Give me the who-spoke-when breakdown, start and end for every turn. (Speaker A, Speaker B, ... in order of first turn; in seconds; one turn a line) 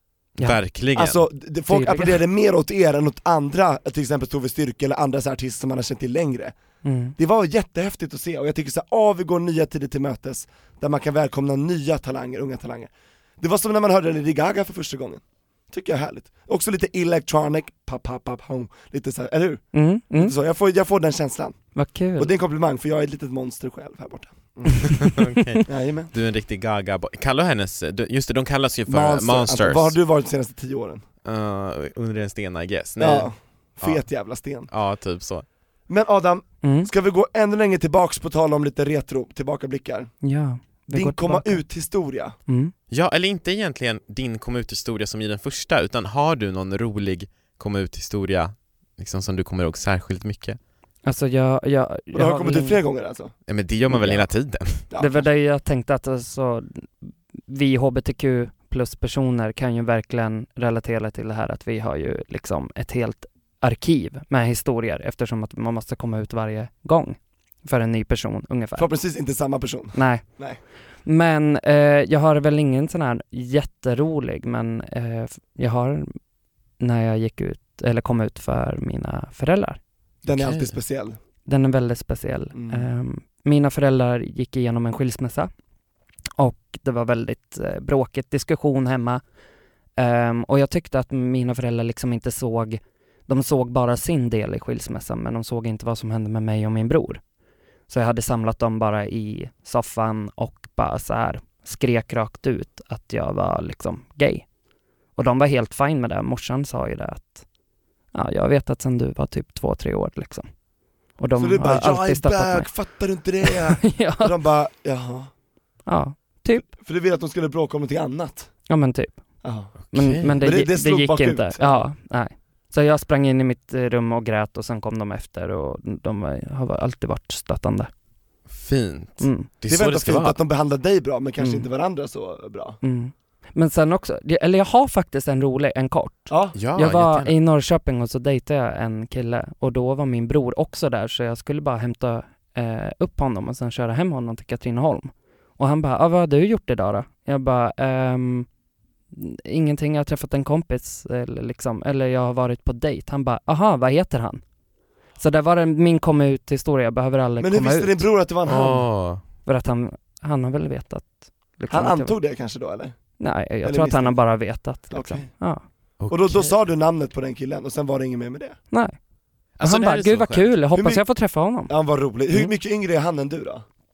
Speaker A: 0.4-1.3
Speaker B: 0.9-6.5
Speaker C: 1.7-2.2
Speaker C: 6.8-7.2
Speaker B: 7.2-25.1
Speaker C: 19.7-20.3
Speaker C: 21.7-22.3
Speaker A: 24.8-29.9
Speaker B: 25.6-26.1
Speaker B: 28.9-31.0
Speaker A: 31.2-34.1
Speaker B: 33.0-34.7
Speaker A: 34.7-35.5
Speaker B: 35.9-40.1
Speaker C: 36.6-36.9
Speaker C: 40.2-41.6
Speaker B: 40.9-42.4
Speaker C: 42.5-42.7
Speaker A: 42.9-50.6
Speaker C: 51.0-52.8
Speaker B: 52.1-53.3
Speaker A: 53.5-54.8
Speaker C: 53.9-54.2
Speaker B: 54.9-55.2
Speaker C: 55.0-68.9
Speaker B: 68.8-70.6
Speaker C: 69.9-70.2
Speaker C: 71.0-76.1
Speaker C: 76.8-79.8
Speaker B: 80.2-81.2
Speaker A: 80.3-80.8
Speaker C: 81.5-85.5
Speaker B: 82.5-82.8
Speaker C: 86.4-89.2
Speaker C: 90.0-97.2
Speaker C: 97.9-104.5
Speaker C: 105.2-107.4
Speaker C: 108.1-110.5
Speaker C: 111.2-112.7
Speaker B: 111.4-115.3
Speaker C: 113.4-114.3
Speaker C: 115.9-116.7
Speaker B: 116.5-118.5
Speaker C: 118.7-119.2
Speaker B: 119.4-119.7
Speaker A: 119.8-120.4
Speaker C: 119.9-127.9
Speaker B: 120.4-121.8
Speaker A: 128.5-130.4
Speaker C: 129.2-129.5
Speaker B: 129.7-132.8
Speaker C: 131.4-131.7
Speaker C: 132.8-148.5
Speaker B: 136.3-136.6
Speaker A: 136.5-137.3
Speaker C: 149.1-154.4
Speaker C: 155.2-158.0
Speaker B: 157.4-158.8
Speaker A: 158.5-159.2
Speaker C: 159.4-162.2
Speaker B: 161.7-163.0
Speaker C: 163.2-165.6
Speaker B: 163.6-164.2
Speaker B: 164.9-165.3
Speaker A: 166.0-166.5
Speaker B: 166.1-168.6
Speaker C: 168.7-169.0
Speaker A: 169.6-170.5
Speaker C: 169.6-171.7
Speaker B: 170.7-171.1
Speaker B: 171.7-173.6